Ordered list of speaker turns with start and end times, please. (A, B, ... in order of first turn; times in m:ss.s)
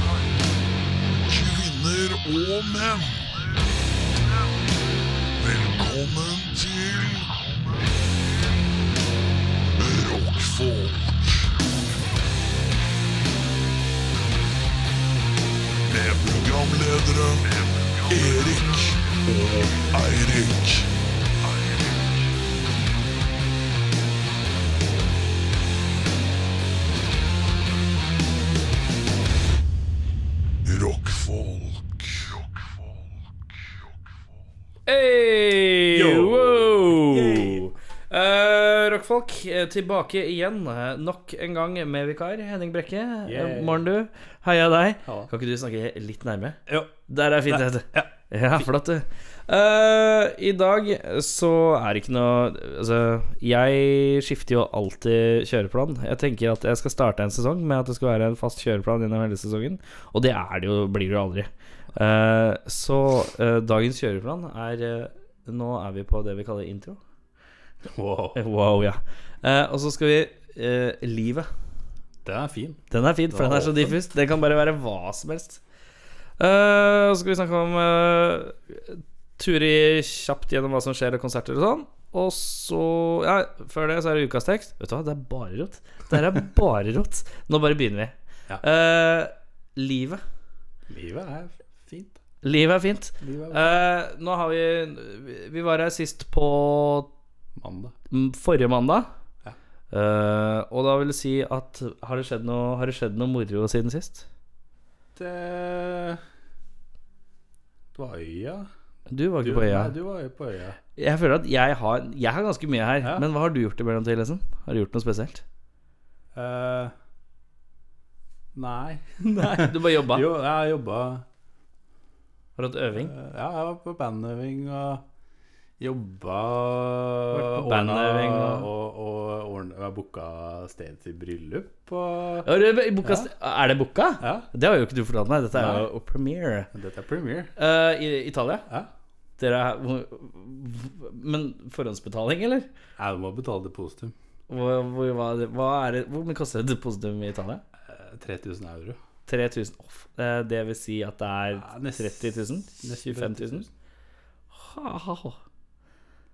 0:01.1-0:03.6 A
0:05.4-0:07.5 A
0:09.8-0:11.6 A
0:15.9-0:20.9 A
0:30.6-0:32.4 A
0:34.9-1:07.0 B
0:35.9-0:37.7 C
0:43.2-0:43.9 C
0:45.0-0:45.3 C
0:47.5-0:48.7 C
1:07.9-1:08.4 C
1:08.4-1:11.5 B
1:12.2-1:14.0 C
1:12.9-1:15.6 B
1:16.4-1:30.2 B
1:30.9-1:32.2 C
1:32.4-1:37.1 B
1:33.2-1:33.7 C
1:37.6-1:38.0 C
1:38.1-1:39.1 B
1:39.9-1:44.3 B
1:45.2-1:46.2 C
1:47.9-1:48.7 C
1:49.1-1:50.0 B
1:49.4-1:50.8 C
1:51.0-1:55.4 B
1:56.4-1:56.9 C
1:58.5-2:01.2 C
1:59.2-2:00.3 B
2:02.6-2:03.1 B
2:02.9-2:05.0 C
2:05.8-2:12.5 C
2:07.3-2:08.7 B
2:12.4-2:16.7 B
2:13.0-2:13.3 C
2:14.2-2:14.5 C
2:15.5-2:15.9 C
2:16.7-2:17.5 C
2:17.6-2:18.7 B
2:19.4-2:22.7 B
2:23.0-2:24.2 C
2:24.5-2:27.6 B
2:27.8-2:29.0 C
2:29.3-2:33.7 B
2:31.5-2:33.7 C
2:34.5-2:35.4 B